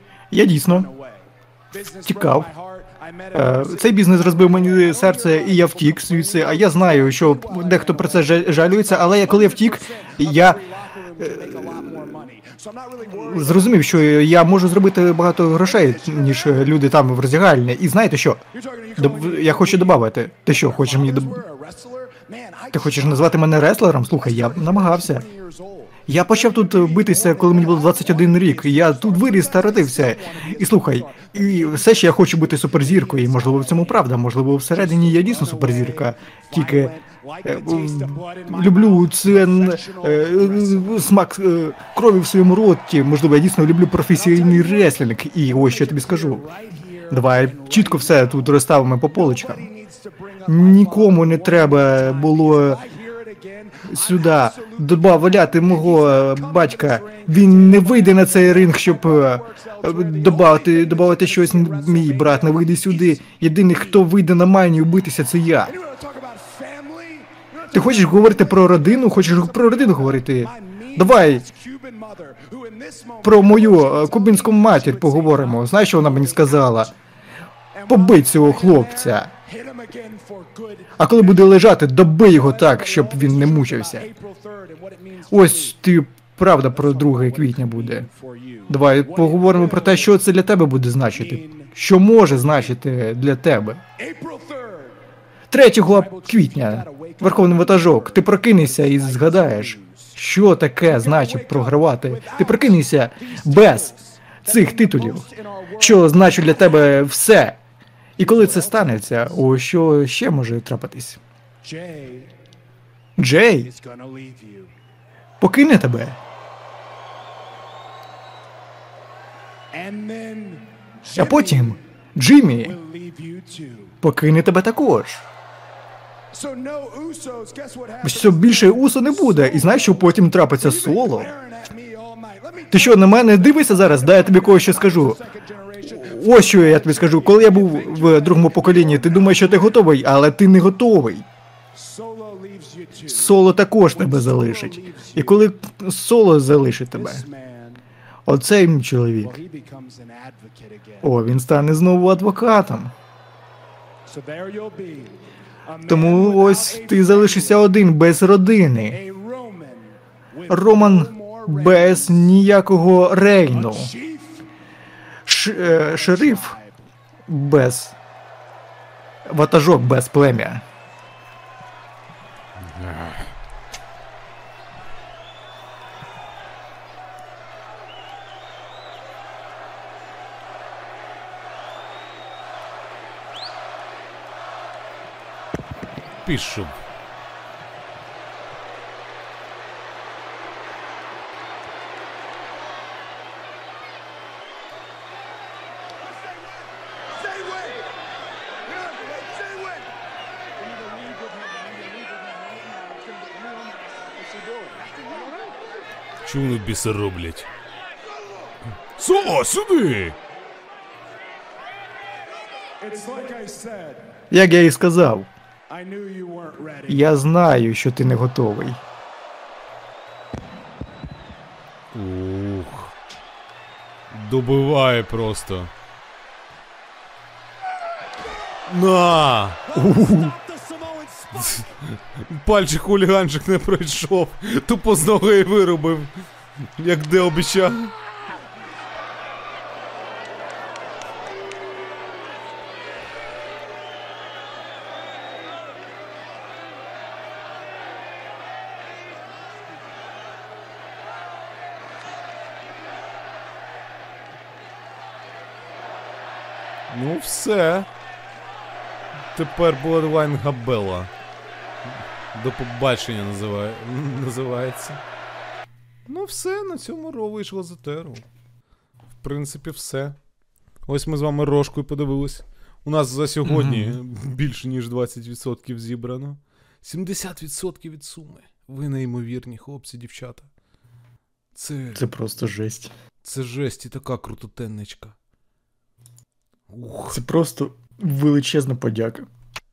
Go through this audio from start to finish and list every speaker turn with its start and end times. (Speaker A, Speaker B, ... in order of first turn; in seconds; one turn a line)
Speaker A: 0.3-0.9
Speaker B: 0.6-14.2
Speaker A: 2.0-2.5
Speaker A: 3.3-10.6
Speaker A: 11.2-12.3
Speaker A: 13.1-18.4
Speaker B: 15.6-16.9
Speaker B: 18.5-41.1
Speaker A: 19.0-21.4
Speaker A: 22.7-25.2
Speaker A: 26.1-36.9
Speaker A: 37.4-46.5
Speaker B: 44.1-64.0
Speaker A: 47.1-49.7
Speaker A: 50.5-52.8
Speaker A: 53.9-65.7
Speaker B: 65.7-76.9
Speaker A: 67.7-71.4
Speaker A: 73.2-76.9
Speaker B: 77.7-85.8
Speaker A: 77.9-79.3
Speaker A: 81.0-84.1
Speaker A: 85.3-88.1
Speaker B: 86.5-90.3
Speaker A: 88.7-93.8
Speaker B: 91.1-91.7
Speaker B: 94.0-95.0
Speaker A: 95.5-105.2
Speaker B: 95.7-100.2
Speaker B: 100.8-106.9
Speaker A: 105.8-107.6
Speaker A: 108.2-111.2
Speaker B: 108.2-109.4
Speaker B: 111.6-112.3
Speaker A: 113.2-113.7
Speaker B: 113.6-114.7
Speaker A: 115.4-116.2
Speaker B: 119.7-121.8
Speaker A: 121.1-122.8
Speaker B: 122.5-124.0
Speaker A: 124.0-125.3
Speaker B: 126.3-139.7
Speaker A: 128.0-131.3
Speaker A: 132.7-135.2
Speaker A: 135.8-141.3
Speaker B: 141.7-145.5
Speaker A: 143.1-147.2
Speaker B: 146.9-147.8
Speaker A: 148.3-149.4
Speaker B: 149.2-151.1
Speaker A: 151.0-152.9
Speaker B: 154.1-157.7
Speaker A: 155.9-159.0
Speaker B: 158.8-162.4
Speaker A: 160.5-163.9
Speaker B: 163.4-164.4
Speaker A: 165.3-166.6
Speaker B: 165.6-166.8
Speaker A: 167.3-167.9
Speaker A: 169.3-170.6
Speaker C: 172.6-173.3
Speaker C: 186.2-186.8
Speaker B: 197.2-197.9
Speaker B: 198.7-199.8
Speaker B: 200.6-205.6
Speaker C: 206.2-207.5
Speaker C: 209.0-210.2
Speaker B: 212.8-214.1
Speaker A: 214.3-215.3
Speaker B: 215.7-217.1
Speaker A: 216.9-218.8
Speaker C: 221.9-222.9
Speaker C: 224.1-225.7
Speaker C: 228.7-229.6
Speaker B: 229.7-231.6
Speaker A: 229.7-230.3
Speaker C: 231.4-236.1
Speaker C: 236.8-237.9
Speaker C: 256.9-257.9
Speaker C: 259.3-261.1
Speaker C: 262.3-265.0
Speaker C: 266.1-268.3
Speaker C: 269.2-270.2
Speaker C: 270.9-280.5
Speaker A: 273.4-274.0
Speaker C: 281.6-282.0
Speaker A: 281.9-282.9
Speaker C: 283.2-285.1
Speaker C: 286.7-287.2
Speaker A: 287.1-289.3